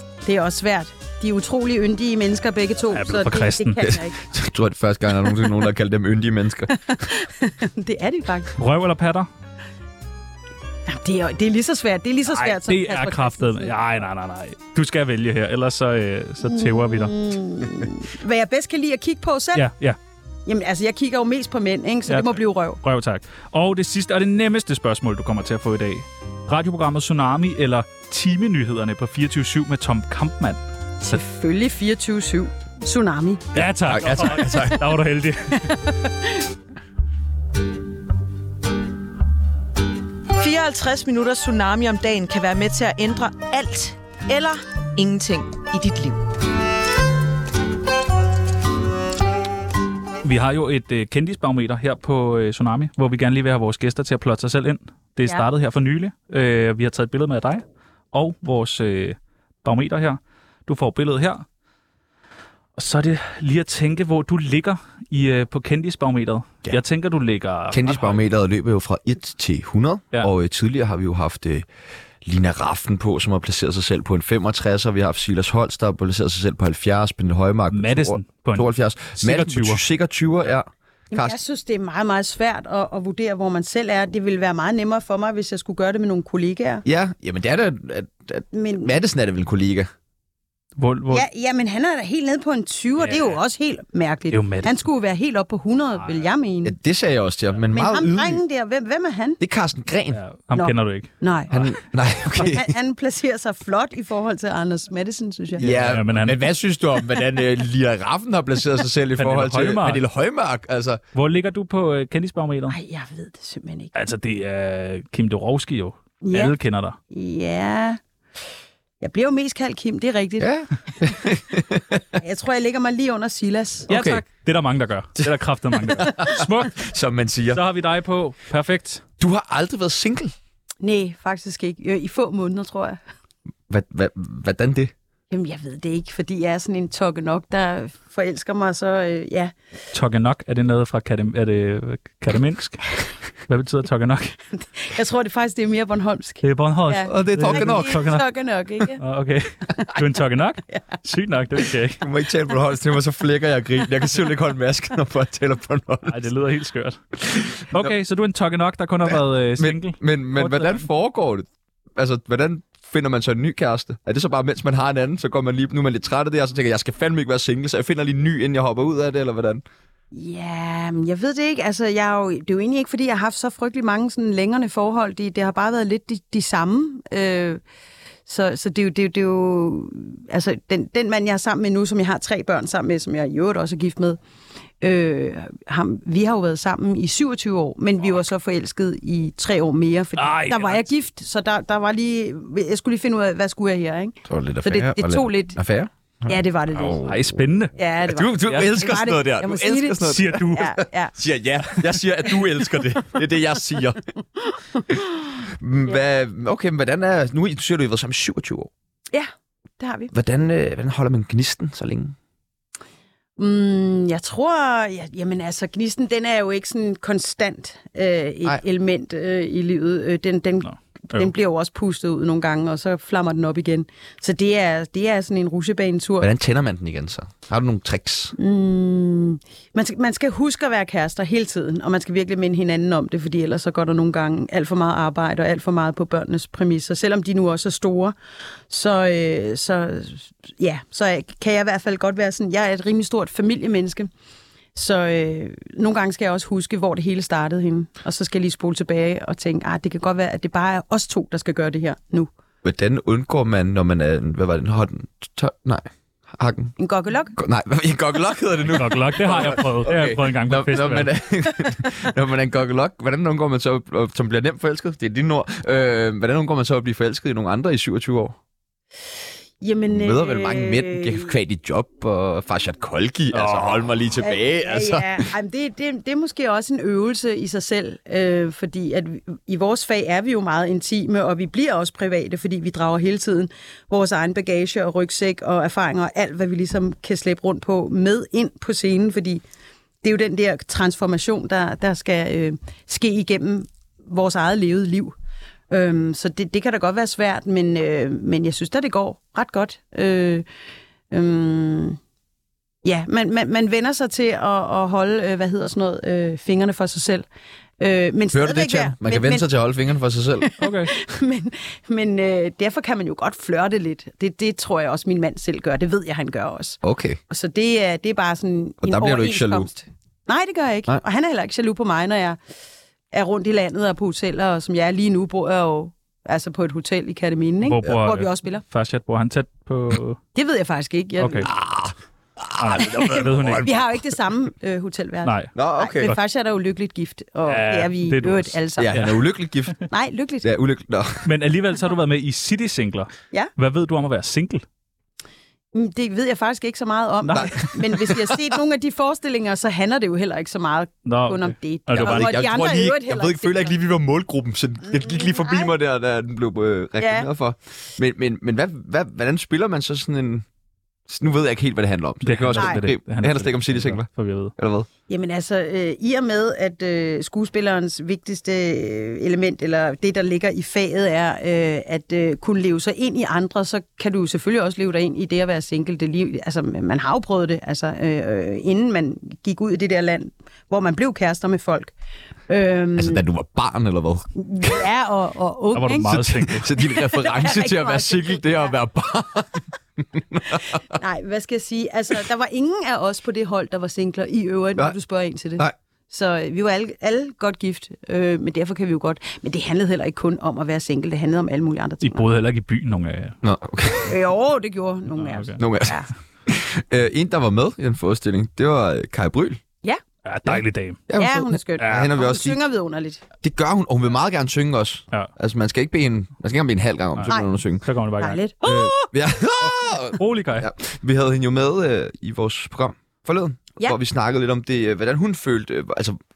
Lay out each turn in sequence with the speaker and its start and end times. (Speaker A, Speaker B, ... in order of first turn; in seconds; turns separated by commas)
Speaker A: 0.2-4.2, Speaker B: 2.9-3.9, Speaker C: 3.8-6.7, Speaker A: 6.7-8.6, Speaker B: 8.6-9.3, Speaker A: 10.9-13.8, Speaker B: 12.3-17.2, Speaker A: 16.4-19.7, Speaker B: 19.5-20.0, Speaker A: 20.5-22.8, Speaker B: 22.1-31.2, Speaker A: 31.0-33.6, Speaker B: 33.5-35.8, Speaker C: 33.8-34.8, Speaker A: 34.5-34.7, Speaker A: 35.5-36.5, Speaker D: 40.4-46.2, Speaker B: 50.2-61.5, Speaker B: 62.8-68.2, Speaker C: 67.7-71.7, Speaker C: 72.2-81.4, Speaker B: 77.7-79.8, Speaker A: 81.1-86.8, Speaker C: 86.8-89.9, Speaker A: 88.5-88.9, Speaker B: 90.8-91.3, Speaker A: 91.1-96.8, Speaker B: 93.0-93.4, Speaker B: 94.3-94.8, Speaker C: 96.7-98.4, Speaker A: 97.7-99.4, Speaker C: 99.4-100.2, Speaker B: 100.1-101.1, Speaker A: 100.5-101.7, Speaker C: 101.5-102.7, Speaker A: 102.3-105.9, Speaker C: 105.6-111.0, Speaker B: 105.6-106.4, Speaker B: 109.2-110.0, Speaker B: 111.2-112.8, Speaker A: 112.7-113.9, Speaker B: 114.0-117.0, Speaker A: 116.2-116.5, Speaker A: 117.1-118.0, Speaker A: 119.0-120.5, Speaker C: 120.4-122.2, Speaker A: 122.1-123.9, Speaker C: 123.9-124.2, Speaker B: 123.9-126.8, Speaker C: 125.2-127.6, Speaker B: 127.5-129.0, Speaker C: 129.2-130.3, Speaker A: 130.8-133.0, Speaker C: 133.7-134.9, Speaker A: 135.3-139.5, Speaker B: 139.9-144.4, Speaker A: 144.6-149.0, Speaker B: 146.4-148.3, Speaker C: 147.1-148.0, Speaker B: 149.0-152.1, Speaker C: 152.0-156.2, Speaker B: 156.1-157.0, Speaker C: 157.2-157.9, Speaker B: 157.7-160.9, Speaker C: 159.1-169.6, Speaker A: 170.1-177.6, Speaker A: 178.3-184.2, Speaker A: 184.8-195.6, Speaker B: 190.2-190.8, Speaker C: 194.3-197.4, Speaker A: 196.3-197.0, Speaker B: 196.9-197.7, Speaker A: 197.8-201.1, Speaker C: 198.1-204.1, Speaker B: 198.5-198.8, Speaker B: 200.1-200.7, Speaker A: 204.4-205.0, Speaker C: 204.9-208.7, Speaker A: 209.1-210.1, Speaker C: 210.1-212.2, Speaker A: 213.4-226.3, Speaker B: 220.6-221.3, Speaker C: 226.2-228.3, Speaker A: 228.4-238.2, Speaker A: 238.7-244.1, Speaker A: 244.8-252.3, Speaker C: 252.6-256.7, Speaker A: 256.8-257.4, Speaker C: 257.4-268.4, Speaker B: 258.7-261.1, Speaker A: 269.6-271.4, Speaker C: 269.9-275.3, Speaker B: 273.3-273.9, Speaker A: 274.2-289.4, Speaker A: 290.0-295.1, Speaker A: 295.7-300.4, Speaker A: 301.1-302.0, Speaker A: 302.8-307.3, Speaker A: 307.8-309.5, Speaker C: 308.3-310.5, Speaker A: 310.4-322.4, Speaker B: 310.6-310.9, Speaker C: 316.8-317.2, Speaker C: 318.8-319.7, Speaker A: 323.1-328.6, Speaker B: 327.6-330.2, Speaker A: 330.4-331.5, Speaker B: 331.2-331.5, Speaker C: 331.5-333.7, Speaker B: 332.6-333.8, Speaker A: 333.0-339.0, Speaker B: 335.2-335.5, Speaker C: 335.6-336.1, Speaker B: 337.5-339.2, Speaker C: 338.8-339.8, Speaker A: 339.9-340.5, Speaker C: 340.4-341.3, Speaker B: 341.2-344.6, Speaker A: 345.7-353.8, Speaker B: 347.3-347.7, Speaker C: 347.3-348.4, Speaker B: 351.1-352.4, Speaker C: 351.9-360.5, Speaker A: 354.9-355.7, Speaker A: 357.0-357.3, Speaker C: 361.1-364.9, Speaker B: 362.2-364.5, Speaker A: 362.6-362.8, Speaker A: 365.1-381.9, Speaker A: 382.5-383.2, Speaker C: 383.0-384.8, Speaker A: 384.4-386.2, Speaker B: 385.8-386.7, Speaker C: 386.1-390.8, Speaker A: 386.8-388.8, Speaker A: 390.9-402.2, Speaker B: 402.0-403.4, Speaker C: 403.4-404.2, Speaker A: 404.1-406.1, Speaker B: 405.1-405.6, Speaker C: 405.6-409.6, Speaker B: 410.2-411.1, Speaker C: 410.5-412.6, Speaker A: 411.1-413.2, Speaker B: 411.8-412.1, Speaker C: 413.4-417.9, Speaker B: 417.2-418.4, Speaker A: 418.2-419.1, Speaker C: 418.6-426.2, Speaker B: 420.1-420.7